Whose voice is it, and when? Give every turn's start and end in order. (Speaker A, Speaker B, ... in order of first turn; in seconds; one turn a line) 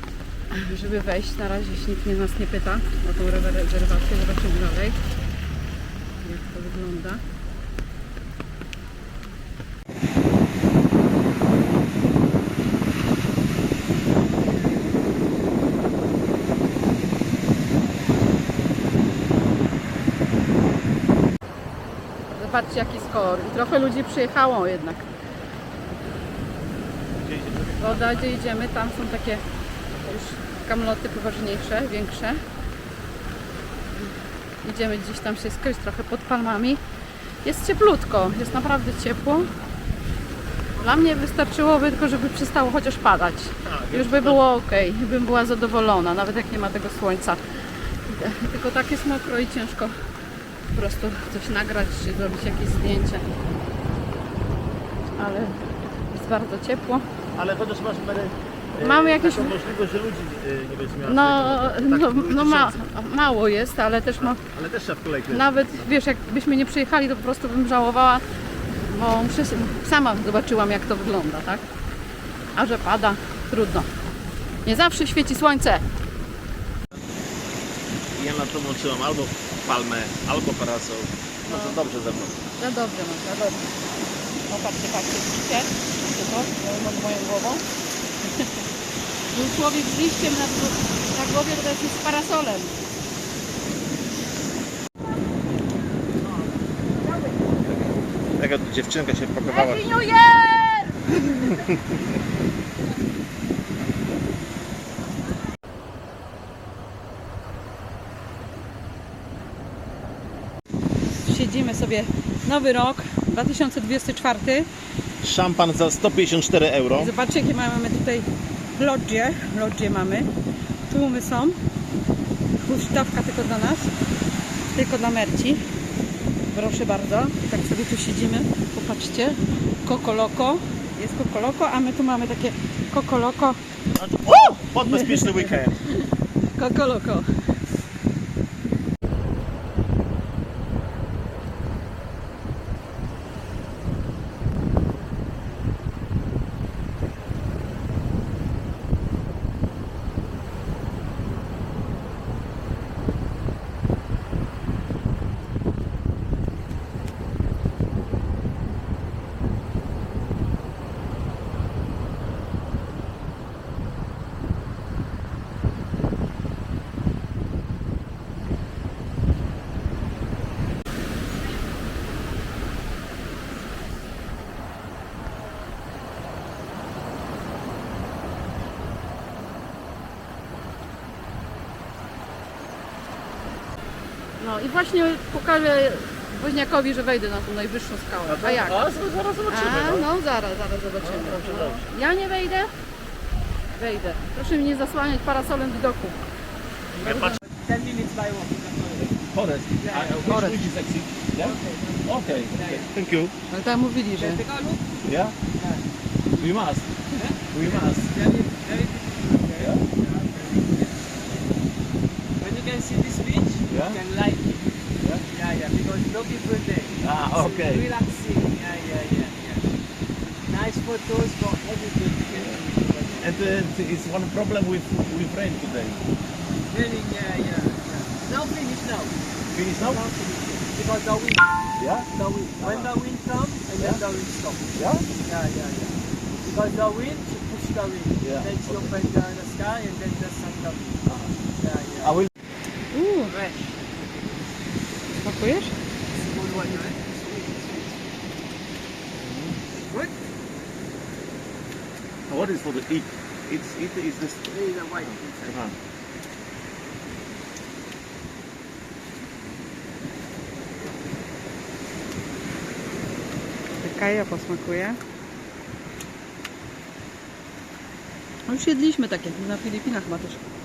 Speaker A: 0.5-5.0
Speaker A: 6.2-7.2
Speaker A: 22.3-25.1
Speaker B: 27.1-28.3
Speaker A: 27.8-29.4
Speaker A: 30.0-32.4
Speaker A: 34.6-36.8
Speaker A: 37.4-39.5
Speaker A: 40.8-50.0
Speaker B: 43.6-44.4
Speaker A: 50.7-53.3
Speaker A: 55.1-57.0
Speaker B: 57.4-62.8
Speaker A: 58.8-59.6
Speaker A: 61.0-64.4
Speaker B: 64.2-65.5
Speaker A: 65.3-68.2
Speaker A: 68.8-71.7
Speaker A: 72.5-73.9
Speaker A: 74.7-75.8
Speaker B: 78.1-82.4
Speaker A: 81.5-81.8
Speaker A: 82.6-83.7
Speaker A: 84.5-87.6
Speaker A: 88.2-88.6
Speaker A: 89.3-92.7
Speaker A: 97.3-97.7
Speaker B: 98.3-99.9
Speaker A: 99.5-101.6
Speaker A: 111.2-114.7
Speaker B: 115.2-117.1
Speaker A: 117.0-120.3
Speaker A: 120.9-121.6
Speaker A: 122.6-123.9
Speaker A: 124.7-125.6
Speaker A: 126.5-133.6
Speaker B: 134.0-135.8
Speaker A: 134.3-137.3
Speaker A: 184.4-188.9
Speaker B: 188.2-190.1
Speaker A: 189.5-192.7
Speaker B: 191.0-191.9
Speaker A: 193.8-196.2
Speaker B: 197.0-197.4
Speaker A: 197.1-197.4
Speaker C: 197.1-199.2
Speaker B: 199.0-203.3
Speaker C: 199.8-200.6
Speaker A: 200.3-200.5
Speaker C: 201.4-202.9
Speaker A: 203.5-204.4
Speaker C: 204.2-204.8
Speaker B: 205.1-205.4
Speaker C: 205.5-205.8
Speaker B: 206.4-208.1
Speaker C: 207.2-211.1
Speaker B: 209.6-209.8
Speaker C: 212.4-214.7
Speaker B: 213.7-214.0
Speaker C: 215.3-219.7
Speaker B: 217.0-217.9
Speaker C: 220.4-223.4
Speaker B: 223.2-226.0
Speaker C: 226.7-229.2
Speaker B: 229.5-230.0
Speaker C: 229.8-242.3
Speaker B: 231.8-232.9
Speaker B: 234.8-235.1
Speaker B: 238.2-238.9
Speaker B: 241.1-241.3
Speaker A: 242.9-243.3
Speaker C: 243.2-244.1
Speaker A: 245.2-245.7
Speaker C: 246.1-248.1
Speaker B: 249.2-249.6
Speaker B: 252.3-255.8
Speaker C: 254.5-255.6
Speaker A: 263.8-265.0
Speaker A: 268.5-270.4